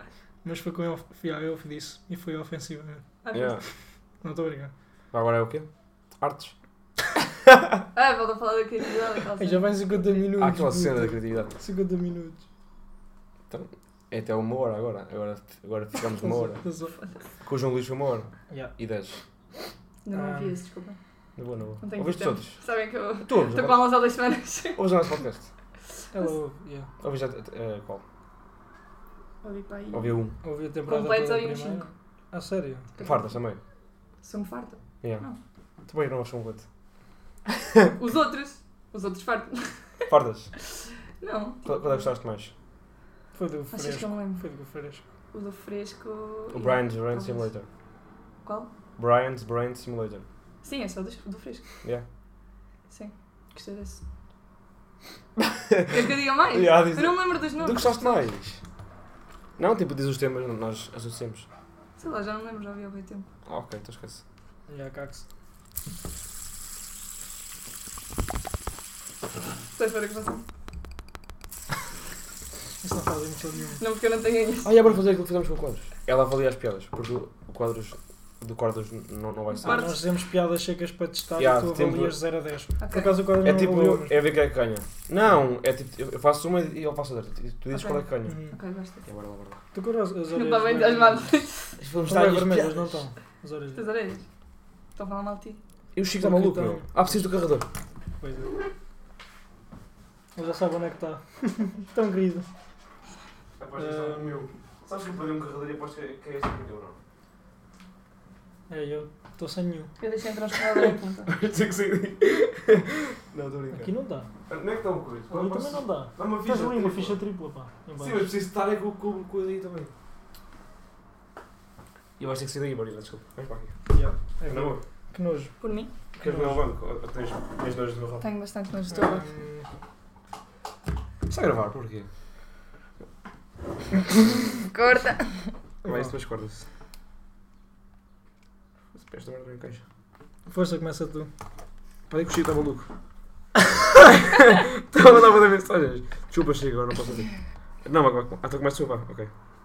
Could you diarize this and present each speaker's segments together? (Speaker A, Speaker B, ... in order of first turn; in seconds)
Speaker A: 0.4-3.0, 4.2-4.7, 9.4-12.4, 16.1-16.9, 20.1-20.6, 26.1-26.9, 30.4-32.9, 43.3-45.0, 64.7-65.2, 72.8-73.8, 79.6-84.2, 88.2-88.5, 89.7-91.3, 92.0-93.8, 96.2-97.3, 98.2-98.5, 100.3-102.5, 103.8-104.5, 108.7-109.9, 113.7-114.3, 115.3-118.3, 123.9-125.5, 126.2-126.6, 128.9-129.7, 135.8-136.1, 140.5-141.3
Speaker B: 3.2-3.6, 7.9-10.3, 16.9-17.2, 20.0-21.0, 21.8-24.8, 29.4-30.2, 30.9-31.8, 33.0-33.3, 34.2-35.4, 38.0-40.0, 40.7-42.1, 43.7-44.4, 45.3-47.5, 48.4-48.7, 50.6-51.6, 52.9-54.0, 55.9-58.0, 62.0-63.3, 69.7-70.4, 73.8-74.7, 79.6-80.0, 82.8-83.2, 87.7-89.0, 90.3-91.8, 93.7-94.3, 95.0-95.6, 110.0-111.3, 125.6-125.9, 128.2-129.2, 134.6-135.5
Speaker C: 3.3-3.6, 5.1-5.7, 6.2-6.5, 10.4-11.6, 13.5-16.6, 17.4-19.2, 21.4-22.6, 23.2-24.0, 24.8-25.5, 27.0-28.0, 29.9-30.4, 33.0-33.6, 35.9-36.6, 40.1-40.5, 41.6-42.5, 46.5-47.7, 49.0-50.2, 55.4-58.6, 59.6-61.5, 63.5-64.2, 74.6-79.9, 81.4-82.2, 83.4-88.4, 89.0-89.6, 91.8-93.0, 95.9-97.7, 103.6-107.0, 110.7-113.9, 114.5-117.2, 118.0-119.9, 122.2-123.8, 124.5-124.8, 126.2-128.2, 131.3-132.1, 135.8-136.7, 138.9-139.8, 142.1-142.9, 144.0-147.3, 147.8-149.3